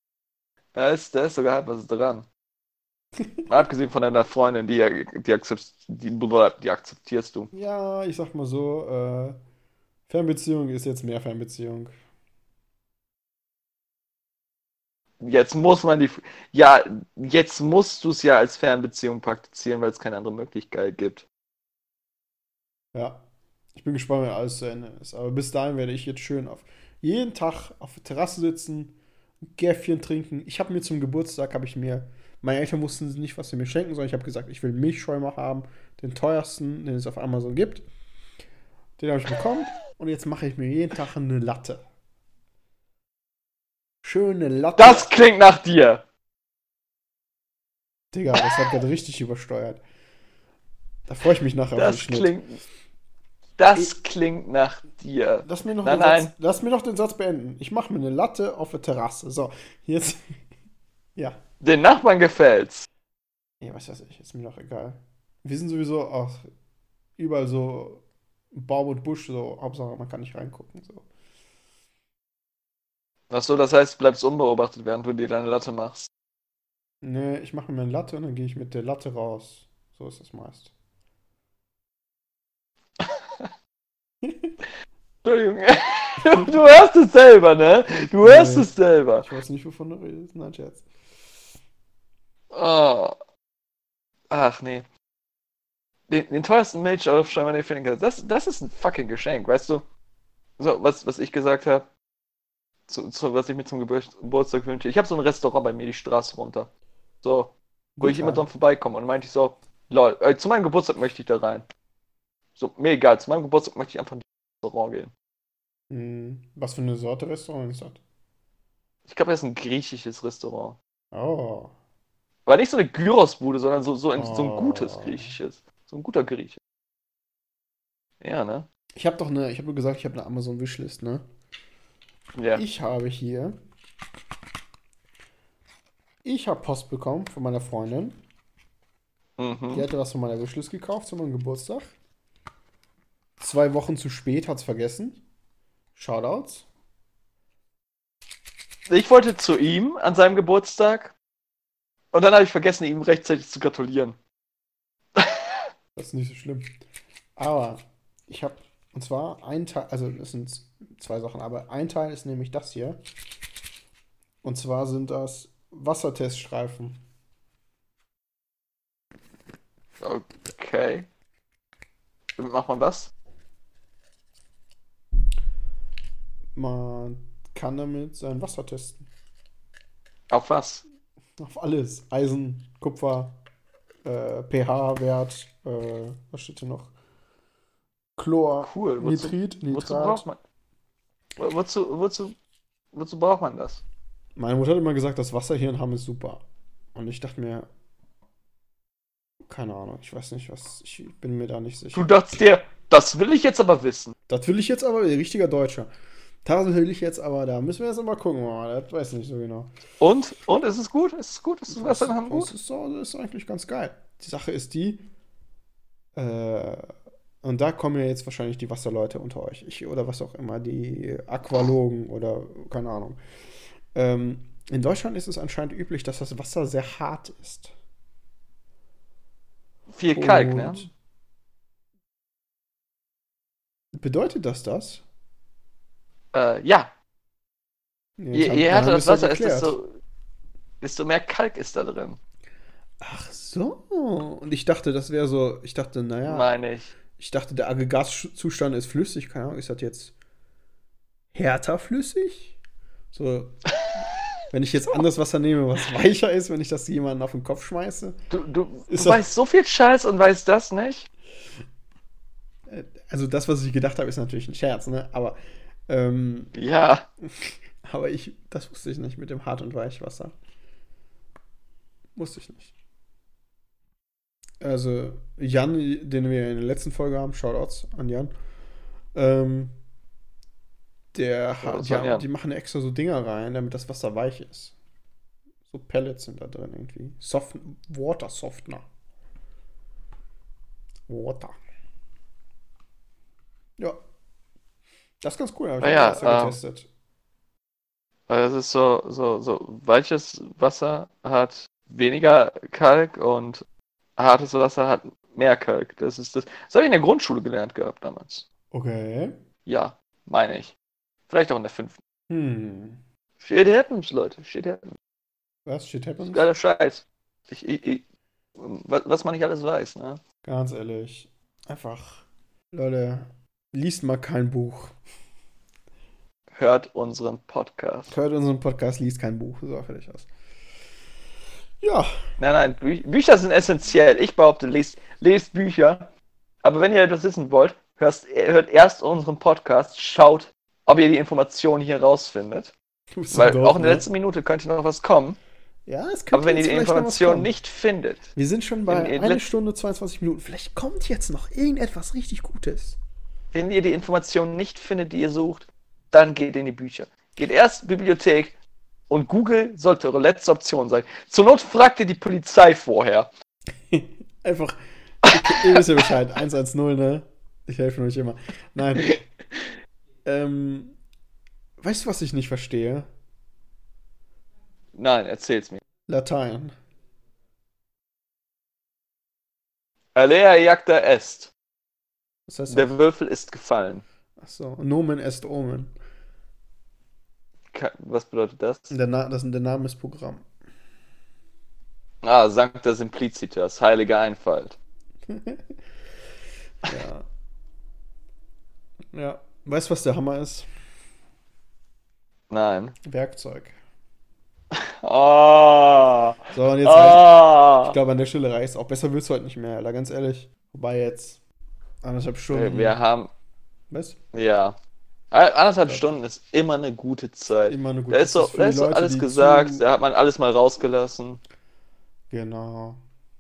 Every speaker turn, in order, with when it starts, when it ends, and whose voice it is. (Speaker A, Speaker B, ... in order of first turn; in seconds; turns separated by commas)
Speaker A: 0.8-2.3, Speaker A: 3.5-7.5, Speaker B: 7.5-9.4, Speaker B: 10.1-11.9, Speaker A: 15.2-21.3, Speaker B: 22.9-37.9, Speaker B: 39.0-41.8, Speaker B: 44.0-45.1, Speaker A: 44.8-46.0, Speaker B: 48.1-49.8, Speaker B: 51.1-52.4, Speaker A: 51.8-52.6, Speaker A: 53.6-56.3, Speaker B: 55.5-60.4, Speaker A: 61.6-62.9, Speaker B: 63.6-66.5, Speaker B: 67.2-71.1, Speaker A: 73.3-76.1, Speaker B: 77.0-80.7, Speaker A: 83.0-83.5, Speaker B: 84.2-84.5, Speaker A: 85.2-89.3, Speaker B: 88.2-88.7, Speaker B: 89.2-90.9, Speaker A: 92.5-93.2, Speaker A: 94.3-94.9, Speaker A: 96.1-99.8, Speaker A: 100.6-101.9, Speaker A: 102.9-106.7, Speaker A: 107.2-111.7, Speaker B: 108.0-108.5, Speaker A: 112.6-115.1, Speaker B: 115.9-118.0, Speaker A: 119.1-120.8, Speaker B: 121.1-121.7, Speaker A: 122.5-126.6, Speaker B: 124.2-125.3, Speaker A: 128.2-128.7, Speaker B: 129.0-131.2, Speaker A: 132.3-132.6, Speaker B: 132.6-133.6, Speaker B: 136.2-138.2, Speaker A: 139.4-139.8, Speaker B: 139.7-141.9, Speaker B: 143.4-145.2, Speaker B: 145.9-146.7, Speaker A: 148.9-151.2, Speaker A: 152.1-154.2, Speaker A: 155.2-155.5, Speaker B: 156.0-156.7, Speaker B: 157.4-163.0, Speaker B: 164.4-167.0, Speaker A: 170.0-171.1, Speaker A: 172.4-173.1, Speaker B: 176.6-179.1, Speaker A: 180.3-180.8, Speaker B: 181.4-183.4, Speaker B: 184.0-186.9, Speaker B: 188.2-190.2, Speaker A: 188.6-190.4, Speaker A: 191.4-192.4, Speaker A: 192.9-193.8, Speaker B: 194.4-196.4, Speaker B: 196.9-197.7, Speaker B: 199.4-202.1, Speaker A: 201.9-204.2, Speaker B: 204.3-205.9, Speaker B: 206.4-209.7, Speaker A: 210.0-212.5, Speaker B: 211.7-215.1, Speaker B: 216.2-223.2, Speaker B: 223.9-227.7, Speaker A: 229.9-230.9, Speaker B: 230.1-230.9, Speaker B: 233.9-235.1, Speaker A: 236.3-236.9, Speaker B: 238.2-239.8, Speaker A: 238.3-239.9, Speaker A: 240.8-242.2, Speaker B: 243.0-246.5, Speaker A: 246.2-246.9, Speaker B: 247.2-250.1, Speaker B: 251.3-252.6, Speaker B: 253.1-253.5, Speaker B: 254.5-258.2, Speaker A: 258.3-261.1, Speaker B: 258.9-259.2, Speaker B: 262.7-266.5, Speaker A: 266.6-267.1, Speaker B: 267.2-270.4, Speaker B: 272.2-272.7, Speaker B: 274.6-278.3, Speaker B: 279.1-279.8, Speaker B: 281.1-284.8, Speaker A: 281.6-282.2, Speaker B: 285.7-288.9, Speaker B: 291.1-291.6, Speaker B: 295.2-296.9, Speaker A: 295.8-296.6, Speaker A: 298.3-303.6, Speaker A: 304.2-308.5, Speaker B: 308.7-309.4, Speaker A: 309.7-310.8, Speaker A: 311.3-312.0, Speaker B: 312.3-313.0, Speaker A: 313.4-315.0, Speaker B: 315.7-316.5, Speaker A: 316.3-318.1, Speaker A: 318.6-320.2, Speaker B: 320.4-324.9, Speaker A: 326.5-328.1, Speaker B: 328.1-330.3, Speaker B: 331.8-332.1, Speaker A: 332.4-336.1, Speaker A: 336.6-342.7, Speaker B: 343.2-344.1, Speaker A: 343.3-345.4, Speaker B: 345.9-347.5, Speaker A: 346.3-348.3, Speaker B: 348.4-353.0, Speaker A: 348.9-349.5, Speaker A: 353.5-358.6, Speaker A: 359.1-363.3, Speaker B: 363.9-369.1, Speaker A: 365.4-366.0, Speaker A: 369.0-369.7, Speaker B: 370.2-371.0, Speaker B: 371.8-373.1, Speaker A: 374.9-375.8, Speaker B: 376.1-376.8, Speaker A: 380.1-381.5, Speaker B: 382.5-382.9, Speaker A: 382.7-384.1, Speaker B: 384.4-385.9, Speaker A: 387.7-388.9, Speaker B: 388.9-390.5, Speaker A: 392.2-394.8, Speaker B: 395.3-395.8, Speaker B: 396.9-397.2, Speaker B: 399.1-400.7, Speaker A: 402.5-402.9, Speaker B: 403.0-403.8, Speaker A: 404.7-408.0, Speaker B: 406.5-411.4, Speaker B: 412.0-413.0, Speaker A: 412.5-413.3, Speaker B: 413.9-414.2, Speaker A: 414.3-414.8, Speaker A: 415.3-421.4, Speaker B: 417.7-419.8, Speaker B: 422.3-423.0